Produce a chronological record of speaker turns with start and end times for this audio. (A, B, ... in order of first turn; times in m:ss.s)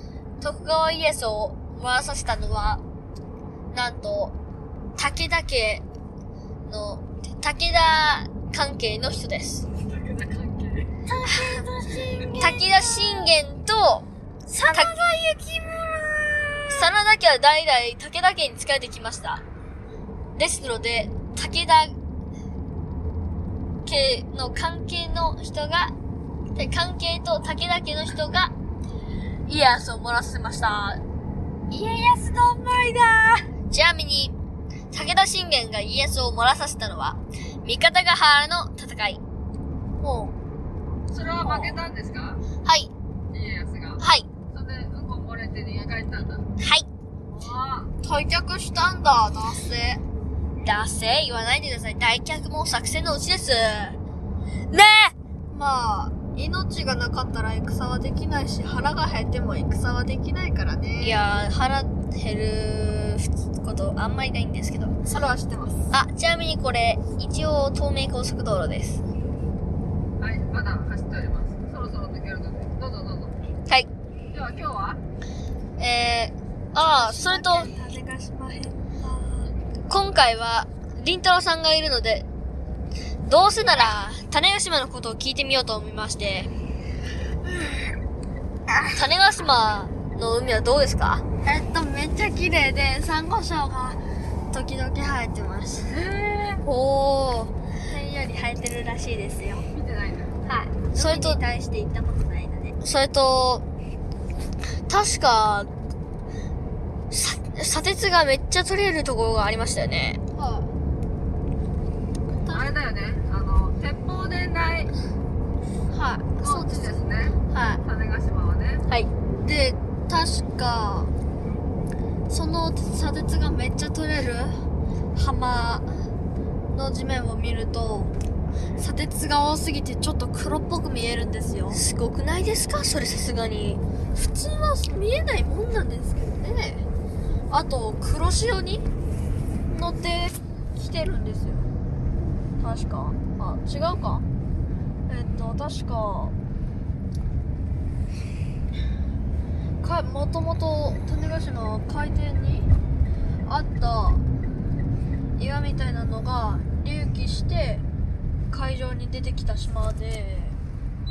0:00.4-0:02.8 A
0:03.7-0:04.3 A
0:05.0-0:05.8 A
0:06.7-0:09.6 A
0:09.8-0:10.9 B
0:11.1-0:13.3 C
0:11.2-0:11.6 A
0:12.4-0:14.1 A
0:14.5-0:16.8 C
0:16.7-0:19.4 A
0:20.4-0:21.9 A
0:23.8-0:25.9 A
0:26.5-0:28.5 A
0:29.4-0:31.0 A
0:31.7-0:33.4 C
0:33.7-0:34.3 A
0:34.9-0:39.2 A
0:40.0-0:40.3 C
0:41.1-0:42.4 B
0:41.4-0:41.8 C
0:42.6-0:42.9 A
0:43.3-0:46.4 B
0:44.0-0:44.3 A
0:46.6-0:46.9 A
0:47.3-0:47.9 B
0:48.0-0:50.0 C
0:50.6-0:54.0 A
0:54.7-0:55.1 A
0:55.5-1:01.2 C
1:01.0-1:04.9 A
1:05.0-1:05.9 C
1:05.9-1:09.0 A
1:10.2-1:13.4 B
1:14.3-1:15.0 B
1:15.8-1:17.7 A
1:16.8-1:19.5 C
1:19.9-1:22.2 A
1:23.2-1:26.5 A
1:29.0-1:31.2 A
1:31.4-1:34.0 C
1:34.5-1:36.0 C
1:35.9-1:36.6 B
1:36.6-1:37.5 A
1:37.9-1:39.7 C
1:39.7-1:40.4 B
1:40.5-1:41.4 A
1:40.9-1:42.8 C
1:42.8-1:43.6 A
1:44.9-1:45.7 A
1:47.1-1:50.2 A
1:50.3-1:50.7 C
1:52.5-1:54.9 B
1:55.9-1:57.0 C
1:56.4-1:58.8 B
1:57.5-1:57.8 A
1:59.4-2:01.1 C
2:02.3-2:04.6 C
2:05.1-2:05.9 C
2:06.7-2:08.1 C
2:08.8-2:11.8 C
2:11.7-2:13.8 A
2:14.1-2:16.8 C
2:17.5-2:18.8 C
2:19.7-2:21.7 C
2:22.6-2:24.2 C
2:25.1-2:26.3 C
2:29.8-2:32.7 C
2:33.4-2:34.2 C
2:35.4-2:37.8 C
2:38.5-2:40.6 C